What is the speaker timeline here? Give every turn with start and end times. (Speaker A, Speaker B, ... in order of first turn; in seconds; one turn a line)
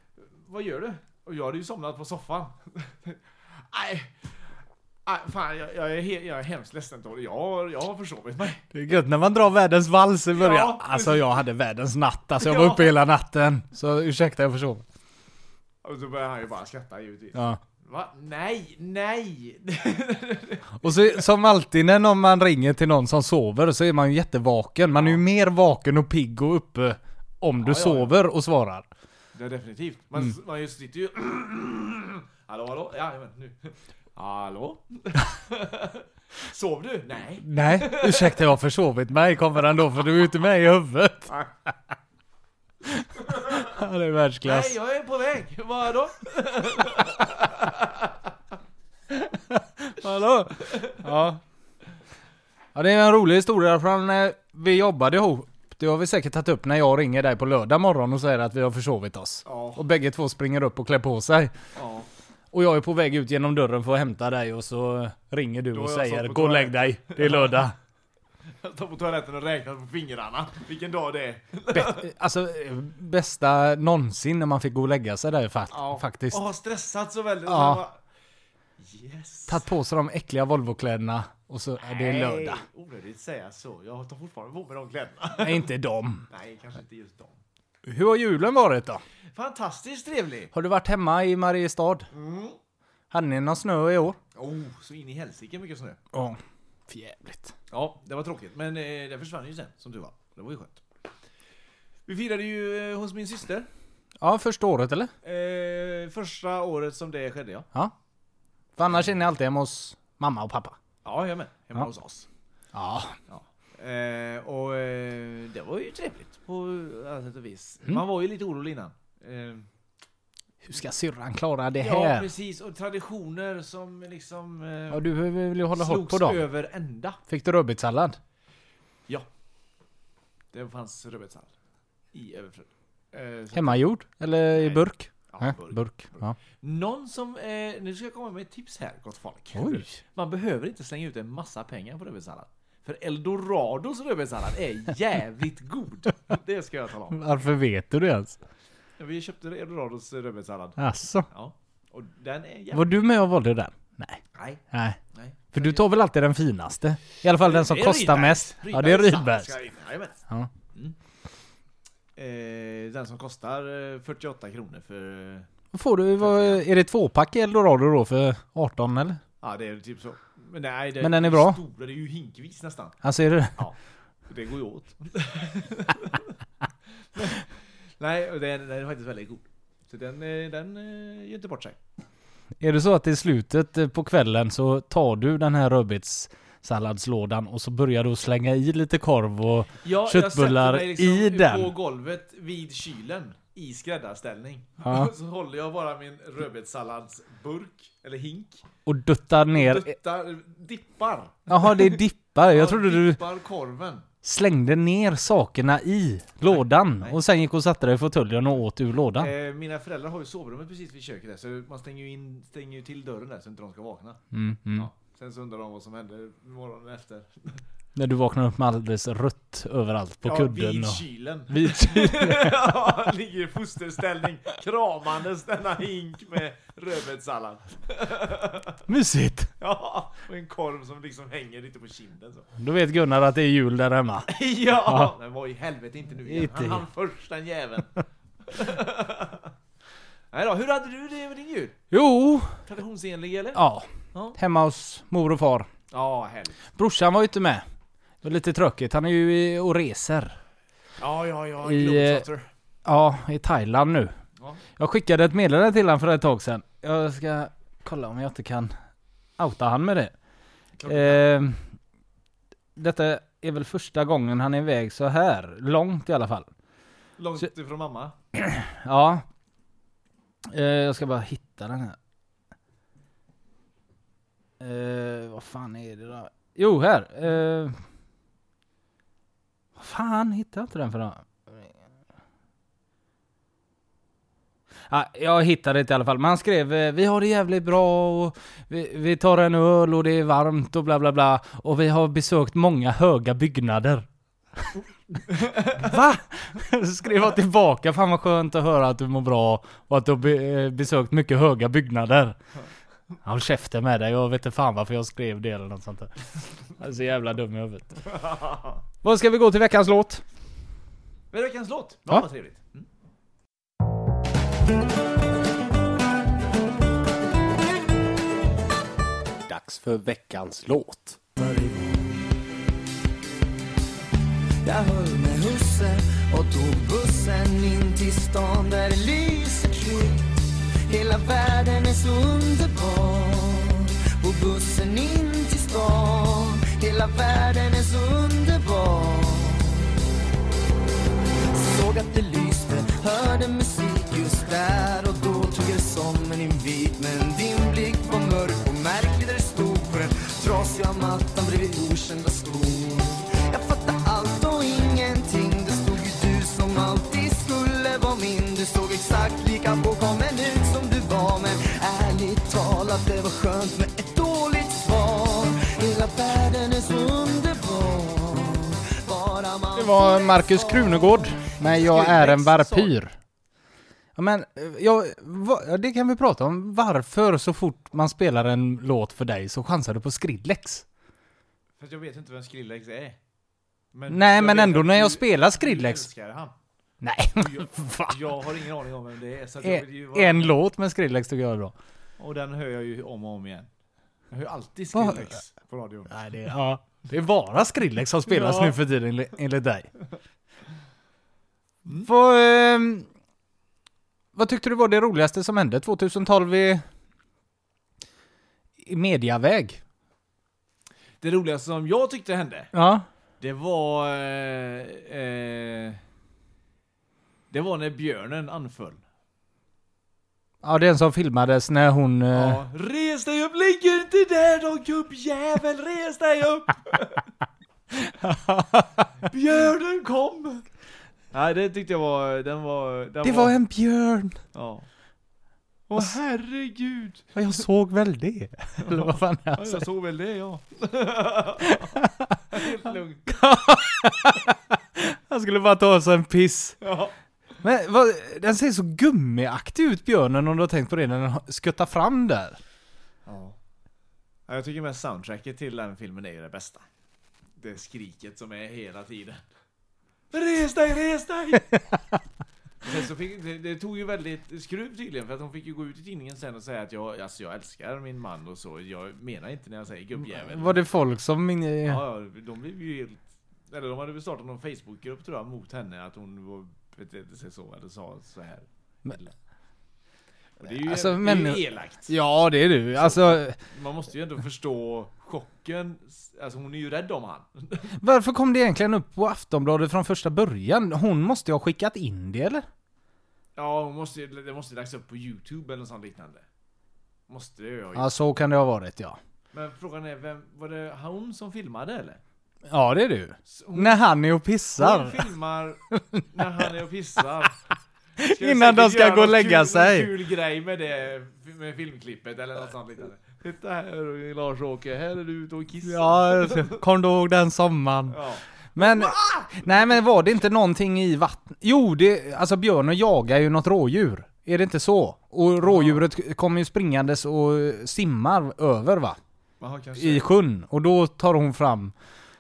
Speaker A: 0.2-4.3
Speaker A: 5.1-8.6
Speaker B: 8.7-14.8
Speaker A: 10.3-11.3
Speaker A: 12.4-12.9
Speaker A: 15.8-21.3
Speaker B: 17.4-17.6
Speaker B: 20.8-28.9
Speaker A: 24.9-25.2
Speaker A: 27.6-28.2
Speaker A: 29.4-38.5
Speaker B: 37.4-41.3
Speaker B: 42.9-44.8
Speaker A: 44.4-48.1
Speaker B: 49.1-51.4
Speaker B: 52.8-61.5
Speaker A: 59.5-59.9
Speaker A: 61.8-62.1
Speaker B: 62.5-67.8
Speaker A: 65.7-67.7
Speaker A: 68.6-72.1
Speaker B: 71.7-76.4
Speaker A: 75.7-78.0
Speaker B: 77.5-77.8
Speaker A: 78.8-79.6
Speaker B: 79.5-82.6
Speaker A: 81.8-85.7
Speaker B: 85.3-86.3
Speaker A: 86.3-87.4
Speaker B: 87.9-89.0
Speaker A: 89.3-90.5
Speaker B: 90.5-92.1
Speaker A: 92.1-92.6
Speaker B: 93.1-94.2
Speaker A: 94.3-96.0
Speaker B: 96.1-97.5
Speaker A: 97.7-100.8
Speaker A: 102.1-103.7
Speaker B: 104.2-105.1
Speaker A: 105.2-107.7
Speaker B: 108.8-110.8
Speaker A: 111.0-112.3
Speaker B: 112.7-113.2
Speaker A: 113.3-119.7
Speaker B: 120.6-122.3
Speaker A: 121.8-125.0
Speaker B: 124.9-126.4
Speaker A: 125.7-127.2
Speaker B: 127.3-128.2
Speaker A: 130.5-131.5
Speaker A: 132.1-133.9
Speaker B: 133.5-136.4
Speaker A: 134.5-147.2
Speaker B: 139.6-140.0
Speaker B: 147.1-148.4
Speaker A: 149.0-152.9
Speaker B: 150.8-151.3
Speaker B: 152.7-155.0
Speaker A: 154.3-154.6
Speaker A: 155.1-155.8
Speaker B: 155.5-159.6
Speaker A: 157.4-160.2
Speaker A: 162.2-165.5
Speaker B: 165.7-169.2
Speaker A: 166.2-166.6
Speaker A: 169.4-173.0
Speaker B: 171.0-171.6
Speaker B: 173.0-173.6
Speaker A: 174.3-176.3
Speaker A: 177.1-177.5
Speaker A: 178.0-181.8
Speaker B: 182.6-191.7
Speaker A: 189.8-198.6
Speaker B: 194.8-195.1
Speaker B: 198.9-199.9
Speaker A: 199.5-204.1
Speaker B: 201.5-203.2
Speaker B: 204.2-209.3
Speaker A: 209.2-214.2
Speaker B: 214.3-214.9
Speaker A: 214.8-217.6
Speaker B: 218.0-222.7
Speaker A: 220.2-228.8
Speaker B: 228.9-229.5
Speaker A: 229.6-232.5
Speaker B: 232.6-235.1
Speaker A: 234.3-239.5
Speaker B: 236.2-236.8
Speaker A: 240.3-241.8
Speaker B: 241.9-242.6
Speaker A: 242.7-243.6
Speaker B: 243.5-245.7
Speaker A: 244.1-244.4
Speaker A: 245.9-246.6
Speaker B: 246.8-247.7
Speaker B: 248.2-250.4
Speaker A: 251.0-252.5
Speaker B: 251.6-252.2
Speaker B: 252.8-254.1
Speaker B: 254.8-258.7
Speaker B: 259.4-260.1
Speaker A: 260.8-261.3
Speaker B: 260.9-261.6
Speaker B: 262.8-266.5
Speaker A: 267.2-268.1
Speaker B: 268.3-269.3
Speaker B: 270.5-272.0
Speaker B: 274.6-277.8
Speaker B: 279.8-281.7
Speaker B: 284.9-294.1
Speaker A: 295.3-295.9
Speaker B: 295.7-302.4
Speaker B: 303.2-306.2
Speaker B: 306.7-308.0
Speaker A: 308.1-308.8
Speaker B: 309.0-310.2
Speaker A: 311.3-312.9
Speaker B: 319.5-321.2
Speaker C: 321.4-322.2
Speaker C: 324.6-339.9
Speaker C: 341.5-372.5
Speaker B: 369.8-373.1
Speaker A: 371.9-372.9
Speaker B: 374.2-380.9
Speaker A: 381.8-383.2
Speaker A: 383.9-386.6
Speaker B: 384.1-386.1
Speaker B: 387.0-388.4
Speaker A: 387.4-390.6
Speaker B: 389.6-391.8
Speaker A: 392.2-393.7
Speaker A: 394.3-396.2
Speaker B: 394.9-395.3
Speaker B: 396.1-399.9
Speaker A: 398.3-398.8
Speaker B: 402.0-403.1
Speaker B: 404.3-406.8
Speaker B: 408.8-409.8
Speaker A: 411.2-412.7
Speaker B: 412.7-413.1
Speaker A: 413.4-416.0
Speaker A: 417.5-419.0
Speaker B: 420.6-422.6
Speaker A: 422.3-427.2
Speaker B: 428.1-429.1
Speaker A: 429.2-430.6
Speaker A: 431.3-433.6
Speaker B: 433.2-434.4
Speaker A: 434.5-434.9
Speaker A: 435.9-437.4
Speaker B: 437.4-439.9
Speaker A: 438.8-443.4
Speaker B: 441.7-442.6
Speaker B: 443.3-446.8
Speaker A: 446.8-447.1
Speaker B: 447.6-452.6
Speaker A: 453.3-453.6
Speaker A: 454.5-456.8
Speaker A: 457.6-459.4
Speaker A: 460.3-461.7
Speaker A: 462.8-470.8
Speaker B: 470.2-472.0
Speaker A: 471.9-479.3
Speaker A: 480.6-482.1
Speaker B: 480.7-483.6
Speaker A: 483.0-487.9
Speaker B: 488.0-492.7
Speaker A: 493.6-496.4
Speaker A: 497.3-498.1
Speaker B: 497.9-499.2
Speaker A: 499.5-502.2
Speaker B: 502.7-505.2
Speaker A: 503.5-504.1
Speaker A: 504.8-507.6
Speaker B: 505.9-506.2
Speaker B: 508.2-510.1
Speaker A: 508.2-516.8
Speaker B: 515.9-518.2
Speaker A: 518.1-520.5
Speaker B: 518.8-529.2
Speaker A: 525.6-526.1
Speaker A: 529.6-530.3
Speaker B: 530.0-531.9